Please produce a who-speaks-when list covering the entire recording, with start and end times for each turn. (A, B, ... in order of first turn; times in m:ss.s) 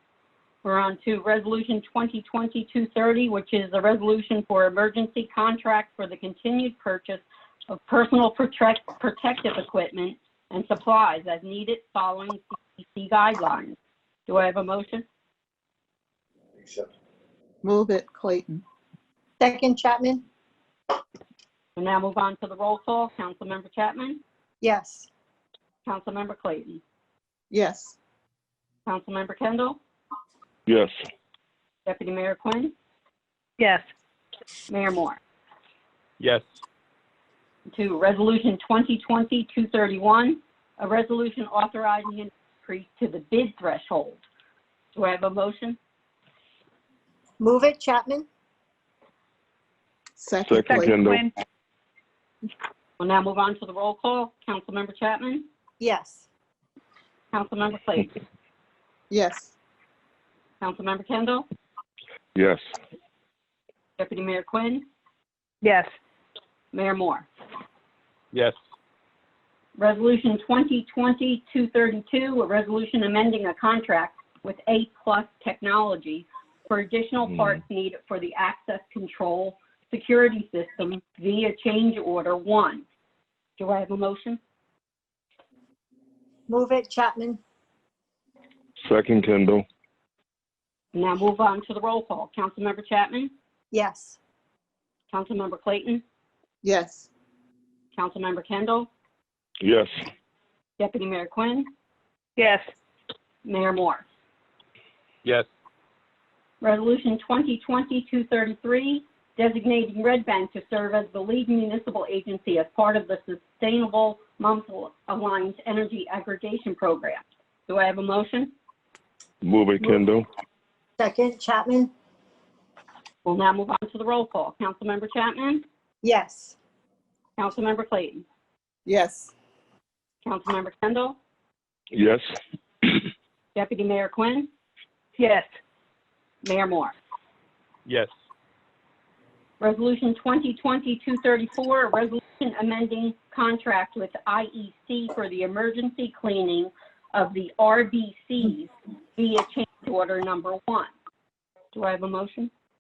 0:00.6-0:15.0 A
0:17.6-0:18.6 B
0:19.4-0:20.2 C
0:21.8-0:24.2 A
0:24.6-0:25.1 C
0:25.9-0:26.8 A
0:27.5-0:28.0 B
0:28.9-0:29.8 A
0:30.7-0:30.9 D
0:31.9-0:32.7 A
0:33.6-0:33.9 E
0:34.7-0:35.2 A
0:37.7-0:44.2 A
0:45.0-0:45.8 A
0:47.4-0:48.3 C
0:50.2-0:51.0 B
0:50.4-0:51.3 D
0:50.7-0:51.3 E
0:53.0-0:55.5 A
0:55.8-0:56.3 C
0:57.3-0:58.1 A
0:59.1-0:59.5 B
1:00.6-1:01.5 A
1:02.4-1:02.6 D
1:04.0-1:04.8 A
1:05.6-1:05.9 E
1:06.7-1:07.3 A
1:09.8-1:22.8 A
1:23.6-1:24.4 A
1:26.5-1:27.4 C
1:28.8-1:29.6 D
1:30.9-1:33.3 A
1:33.7-1:34.2 C
1:35.1-1:36.0 A
1:36.6-1:37.1 B
1:37.9-1:38.9 A
1:39.6-1:39.9 D
1:40.8-1:41.7 A
1:42.4-1:42.7 E
1:43.4-1:44.0 A
1:46.6-1:58.5 A
1:59.4-2:00.3 D
2:01.0-2:01.9 C
2:03.2-2:05.6 A
2:06.0-2:06.6 C
2:07.4-2:08.2 A
2:08.9-2:09.3 B
2:10.2-2:11.2 A
2:11.9-2:12.2 D
2:13.6-2:14.5 A
2:15.2-2:15.5 E
2:16.4-2:16.9 A
2:19.6-2:30.9 A
2:31.7-2:32.5 A